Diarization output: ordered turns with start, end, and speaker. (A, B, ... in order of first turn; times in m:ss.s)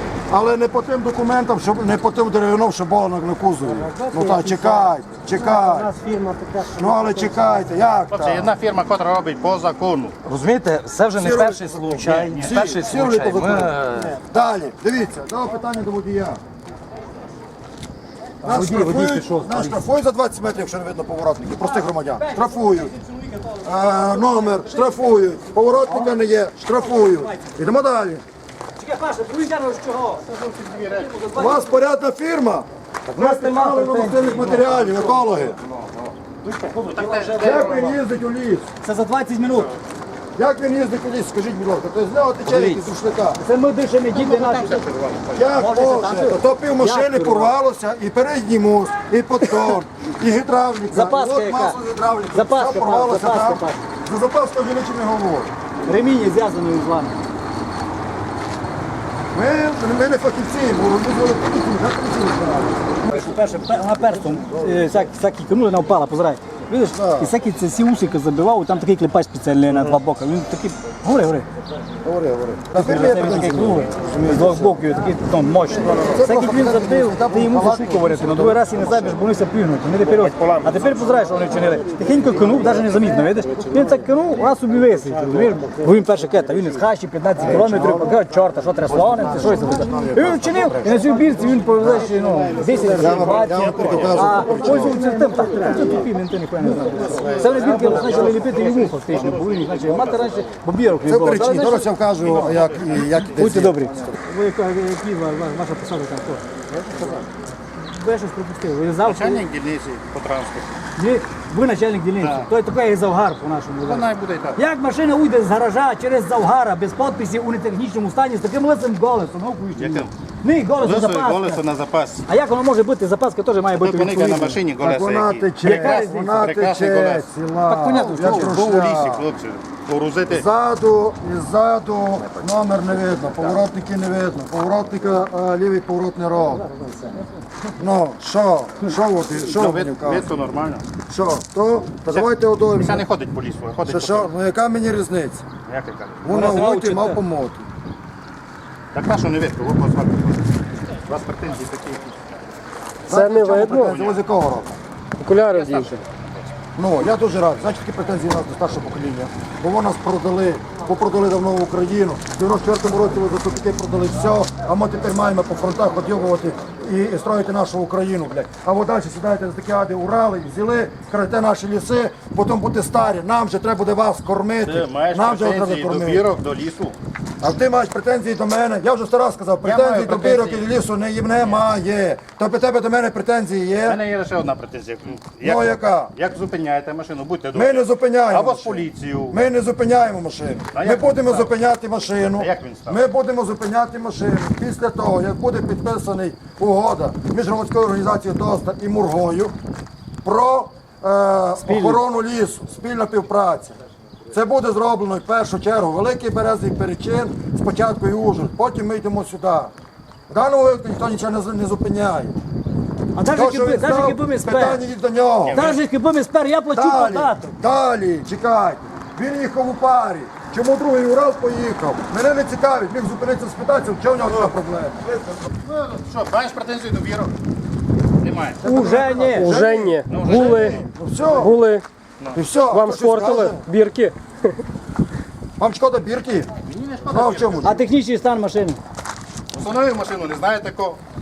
0:00.3-0:06.0 A
0:06.7-0:08.5 A
0:08.1-0:10.2 B
0:10.2-0:14.2 C
0:11.1-0:16.4 A
0:12.0-0:12.9 B
0:18.4-0:19.8 D
0:18.4-0:22.9 A
0:21.6-0:26.1 D
0:23.6-0:28.2 A
0:26.7-0:27.5 D
0:28.8-0:30.2 D
0:30.3-0:31.1 B
0:30.9-0:31.8 D
0:31.4-0:35.6 A
0:33.1-0:38.0 C
0:36.5-0:37.7 B
0:37.4-0:38.7 A
0:38.8-0:39.8 D
0:40.4-0:43.4 A
0:42.5-0:42.9 C
0:43.4-0:44.8 D
0:44.1-0:45.5 B
0:45.3-0:55.5 A
0:45.5-0:47.5 D
0:50.9-0:51.8 D
0:52.3-0:53.8 D
0:55.8-0:57.2 D
0:59.3-1:04.9 A
1:03.1-1:11.5 D
1:06.9-1:07.3 A
1:12.0-1:14.8 A
1:12.7-1:41.9 D
1:15.8-1:19.2 A
1:20.1-1:21.3 B
1:27.4-1:28.2 A
1:28.9-1:31.0 A
1:31.8-1:32.1 C
1:32.9-1:35.1 A
1:33.4-1:34.3 B
1:37.0-1:40.6 B
1:37.4-1:38.3 C
1:41.0-1:43.9 A
1:42.2-1:43.6 B
1:43.3-1:46.4 D
1:46.8-1:47.2 B
1:47.8-1:49.5 D
1:49.0-1:50.8 B
1:51.0-2:01.6 D
1:52.2-1:52.5 B
1:53.9-1:54.6 B
1:59.8-2:00.1 B
2:00.8-2:02.3 B
2:02.3-2:04.6 D
2:03.8-2:07.3 B
2:04.8-2:09.3 A
2:05.6-2:06.4 D
2:07.6-2:08.6 D
2:08.1-2:10.4 B
2:10.3-2:16.7 A
2:12.0-2:13.7 C
2:16.8-2:17.1 D
2:17.8-2:20.3 A
2:19.5-2:20.8 B
2:21.1-2:23.1 A
2:22.1-2:24.3 B
2:23.8-2:25.4 A
2:25.7-2:26.4 B
2:26.2-2:27.7 A
2:26.3-2:27.1 D
2:26.4-2:27.1 C
2:28.9-2:32.3 B
2:33.1-2:34.8 A
2:33.1-2:34.0 E
2:33.8-2:34.2 B
2:35.2-2:36.0 E
2:35.5-2:36.0 B
2:36.8-2:56.3 A
2:54.6-2:57.0 B
2:57.4-3:04.0 A
2:59.6-3:00.7 B
3:03.8-3:09.4 B
3:05.4-3:06.1 A
3:07.5-3:19.6 A
3:10.7-3:11.5 B
3:12.4-3:13.0 B
3:20.2-3:23.8 A
3:21.6-3:22.0 D
3:24.3-3:29.7 A
3:30.3-3:32.4 A
3:33.2-3:34.8 D
3:33.3-3:35.6 A
3:35.4-3:35.8 B
3:35.5-3:37.5 D
3:36.8-3:45.1 A
3:45.6-3:47.4 B
3:48.2-3:48.6 B
3:48.6-3:51.6 A
3:48.6-3:49.5 D
3:49.4-3:50.8 E
3:50.1-3:50.8 B
3:51.3-3:51.8 E
3:52.3-3:53.7 A
3:52.7-3:54.6 E
3:55.6-3:56.5 A
3:56.6-3:57.8 B
3:57.1-3:57.8 A
3:57.6-3:58.8 D
3:59.5-4:01.0 B